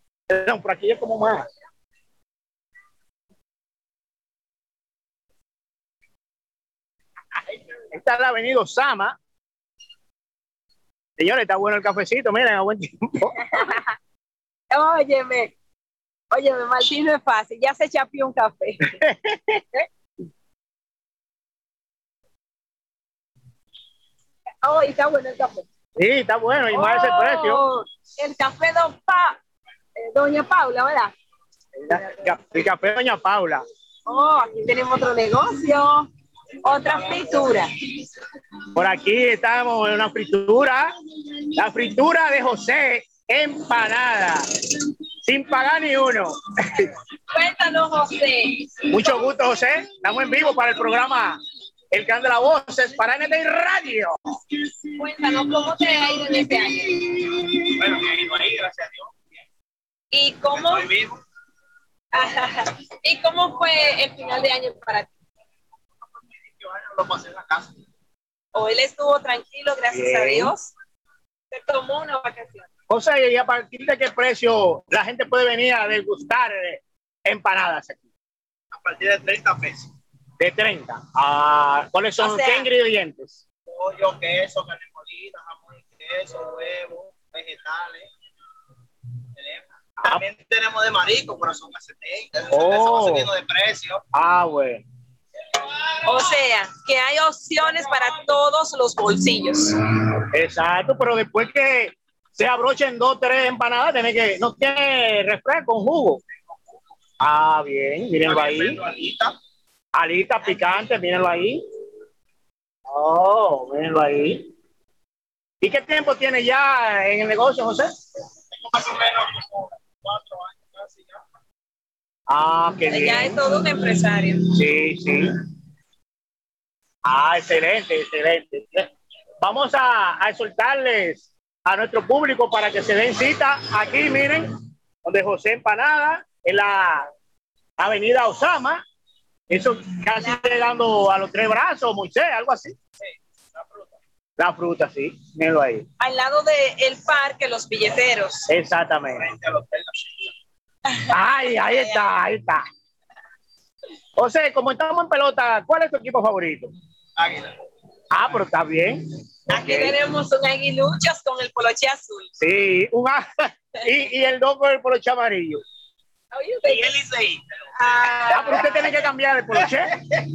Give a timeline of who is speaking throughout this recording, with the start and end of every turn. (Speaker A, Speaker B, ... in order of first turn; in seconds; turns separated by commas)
Speaker A: 0.3-1.5, Speaker A: 7.9-9.2, Speaker A: 11.2-13.7, Speaker B: 13.3-13.9, Speaker B: 14.7-15.5, Speaker B: 16.3-18.9, Speaker A: 18.9-19.6, Speaker B: 24.6-25.7, Speaker A: 26.0-27.6, Speaker B: 26.7-29.4, Speaker B: 30.0-31.1, Speaker A: 31.8-33.6, Speaker B: 34.1-36.1, Speaker B: 36.6-37.7, Speaker A: 38.7-40.9, Speaker A: 41.5-44.5, Speaker A: 45.2-46.9, Speaker B: 47.3-49.1, Speaker A: 48.9-51.4, Speaker A: 51.9-54.2, Speaker B: 55.0-57.0, Speaker C: 57.7-59.2, Speaker B: 60.1-60.9, Speaker C: 60.5-61.2, Speaker B: 62.1-65.1, Speaker C: 66.5-67.7, Speaker B: 68.5-70.7, Speaker A: 69.9-70.5, Speaker B: 71.5-72.7, Speaker A: 72.9-78.1, Speaker C: 78.7-79.9, Speaker A: 80.4-83.4, Speaker B: 82.2-82.7, Speaker C: 83.7-88.1, Speaker C: 89.4-94.0, Speaker A: 92.5-93.3, Speaker A: 94.1-94.8, Speaker B: 96.0-99.8, Speaker A: 100.3-106.2, Speaker A: 107.2-108.9, Speaker C: 108.2-109.3, Speaker A: 110.0-111.6, Speaker A: 112.9-114.5, Speaker A: 115.6-117.9, Speaker C: 118.6-121.2, Speaker A: 122.3-123.4, Speaker B: 122.9-124.5, Speaker A: 124.5-125.3, Speaker A: 127.1-128.9, Speaker A: 129.4-134.5, Speaker A: 135.1-137.1, Speaker A: 137.8-138.8, Speaker A: 139.5-142.8, Speaker C: 143.6-143.9, Speaker A: 144.4-145.9, Speaker B: 146.0-148.4, Speaker A: 148.5-149.3, Speaker C: 149.2-150.3, Speaker B: 150.9-152.1, Speaker A: 151.1-152.6, Speaker A: 154.2-156.7, Speaker C: 157.2-157.5, Speaker A: 158.1-160.0, Speaker B: 159.5-162.3, Speaker A: 162.4-165.6, Speaker B: 166.3-167.0, Speaker C: 166.7-167.4, Speaker B: 167.8-169.0, Speaker A: 168.3-170.0